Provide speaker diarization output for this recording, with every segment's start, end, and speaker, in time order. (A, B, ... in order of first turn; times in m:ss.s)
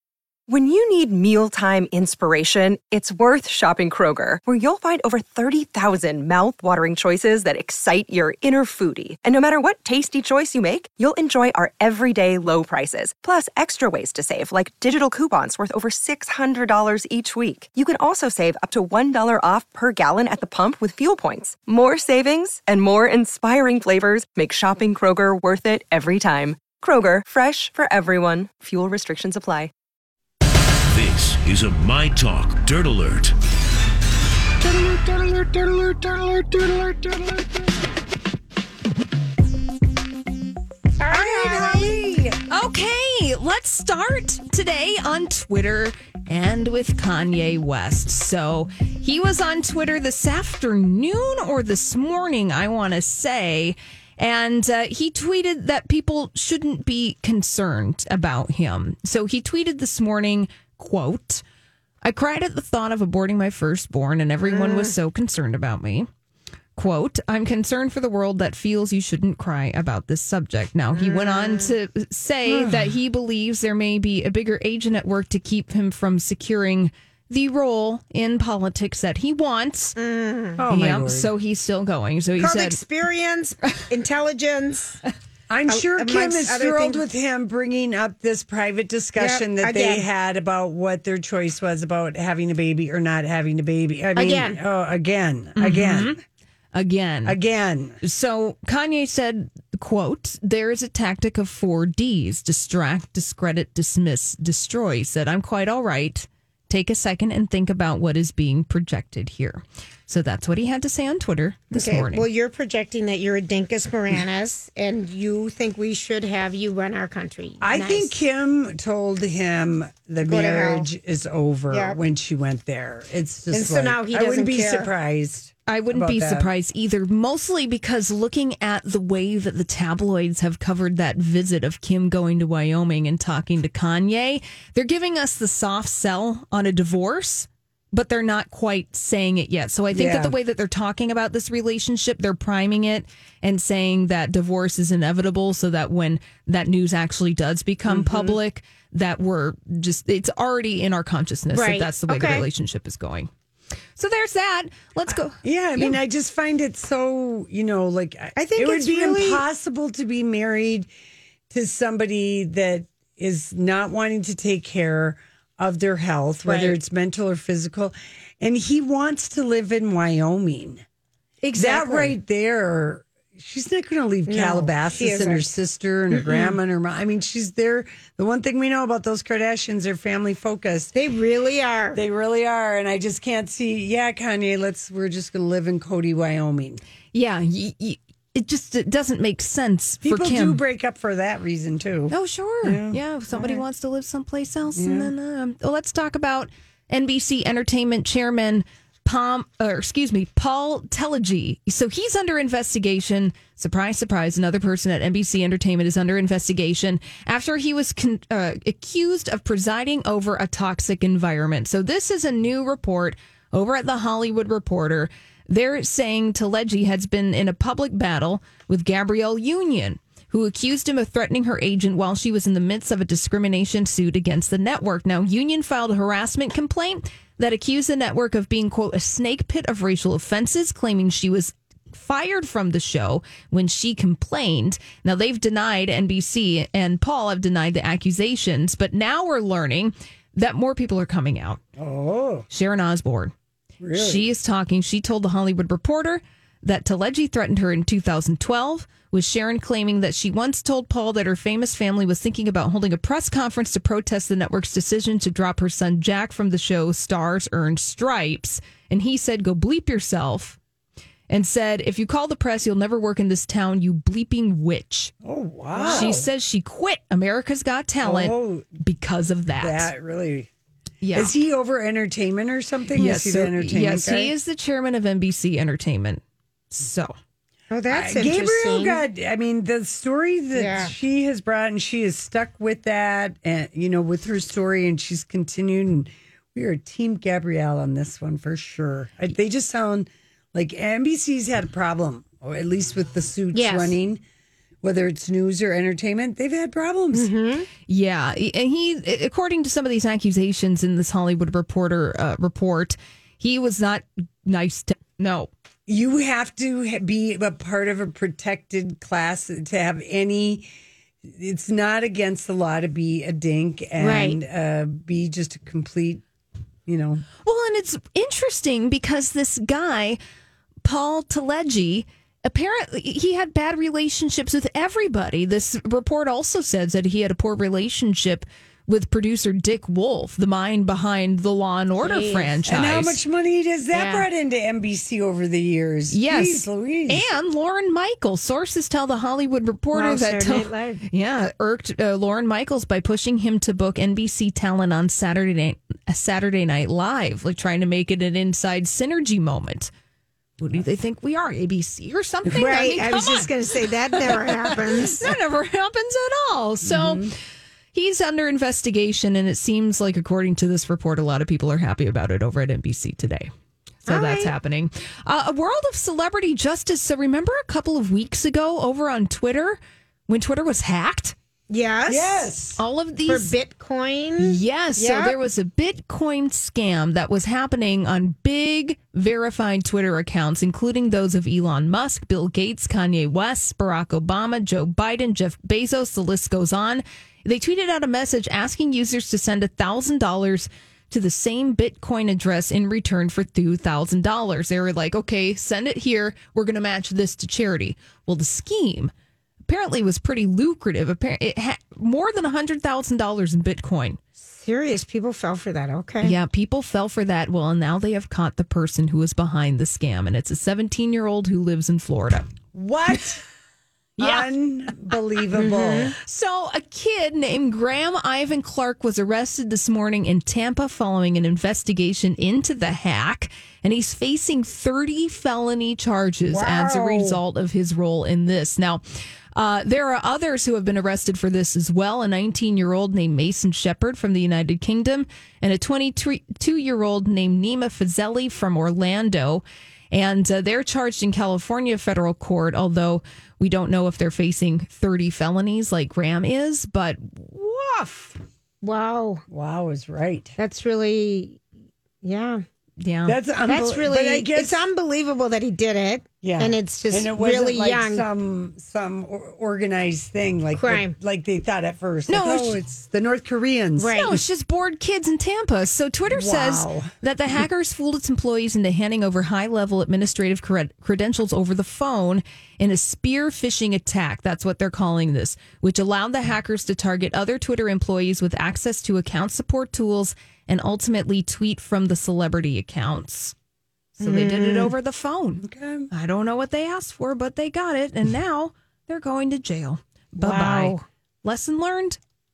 0:00.5-0:29.7 A
0:30.9-0:33.3 B
0:34.6-0:37.5 C
0:41.0-0:41.9 D
0:41.1-0:42.4 C
0:42.5-1:01.4 E
1:02.0-1:06.1 E
1:04.4-1:04.9 D
1:06.8-1:20.0 E
1:10.9-1:11.7 D
1:12.5-1:12.9 C
1:20.0-1:20.6 D
1:20.6-1:21.3 C
1:20.7-1:22.8 E
1:22.4-1:25.0 D
1:25.5-1:36.2 C
1:25.7-1:27.0 D
1:29.2-1:30.0 D
1:34.2-1:34.6 D
1:35.6-1:36.2 E
1:36.7-1:37.4 E
1:37.2-1:38.0 C
1:38.0-1:52.2 E
1:51.7-1:58.2 D
1:57.6-2:06.5 C
2:00.2-2:00.9 D
2:01.7-2:02.0 D
2:03.5-2:04.9 D
2:05.7-2:33.3 E
2:19.9-2:20.4 C
2:27.9-2:28.4 C
2:31.5-2:32.4 D
2:34.0-2:36.0 E
2:35.4-2:40.9 C
2:38.4-2:39.4 D
2:41.5-2:50.8 C
2:46.4-2:46.8 D
2:51.4-2:52.1 D
2:51.5-3:00.9 C
2:54.3-2:55.6 D
2:56.1-2:56.6 D
3:00.9-3:02.0 D
3:01.9-3:06.8 C
3:07.1-3:10.6 E
3:10.0-3:13.6 C
3:12.1-4:01.6 E
3:14.8-3:15.1 C
4:01.8-4:02.4 C
4:02.5-4:03.3 E
4:03.8-4:04.3 C
4:03.9-4:20.6 E
4:21.3-4:25.1 E
4:25.2-4:26.3 C
4:25.7-4:26.2 D
4:25.8-4:29.9 E
4:28.0-4:28.8 C
4:29.6-4:30.5 C
4:31.0-4:31.3 E
4:31.1-4:34.3 C
4:32.9-4:37.1 E
4:37.7-4:39.0 D
4:37.9-4:54.2 C
4:40.5-4:40.9 D
4:53.5-4:54.0 D
4:54.8-4:57.3 C
4:57.1-4:57.7 D
4:57.9-5:05.5 E
5:05.9-5:10.7 C
5:11.2-5:16.2 C
5:14.0-5:14.4 D
5:16.9-5:17.2 C
5:17.4-5:20.2 E
5:20.8-5:33.2 E
5:32.0-5:32.5 D
5:32.6-5:37.2 C
5:33.9-5:34.2 D
5:36.1-5:49.9 E
5:39.9-5:41.0 D
5:50.6-5:57.3 E
5:52.5-5:55.3 D
5:56.8-5:57.3 C
5:57.9-6:03.5 E
6:04.0-6:11.3 E
6:04.1-6:04.5 D
6:11.7-6:12.4 D
6:12.1-6:12.8 C
6:12.8-6:13.5 E
6:13.2-6:15.4 D
6:14.4-6:39.1 E
6:39.7-6:44.2 E
6:44.4-6:46.3 D
6:46.2-6:52.5 E
6:52.7-6:53.4 C
6:54.2-6:54.5 E
6:54.2-6:56.1 C
6:55.5-6:56.1 D
6:56.2-7:09.0 E
7:06.5-7:07.4 D
7:09.5-7:28.3 E
7:28.8-7:29.4 D
7:29.5-7:30.5 C
7:30.6-7:31.6 D
7:32.2-7:32.6 D
7:33.0-7:33.4 E
7:33.2-7:34.8 C
7:33.7-7:38.2 D
7:36.4-7:44.4 C
7:40.8-7:41.1 D
7:42.3-7:42.8 E
7:44.0-7:44.4 D
7:44.2-8:03.5 E
7:46.3-7:47.1 C
8:04.2-8:12.2 E
8:04.2-8:04.9 D
8:05.6-8:06.1 C
8:10.4-8:11.0 D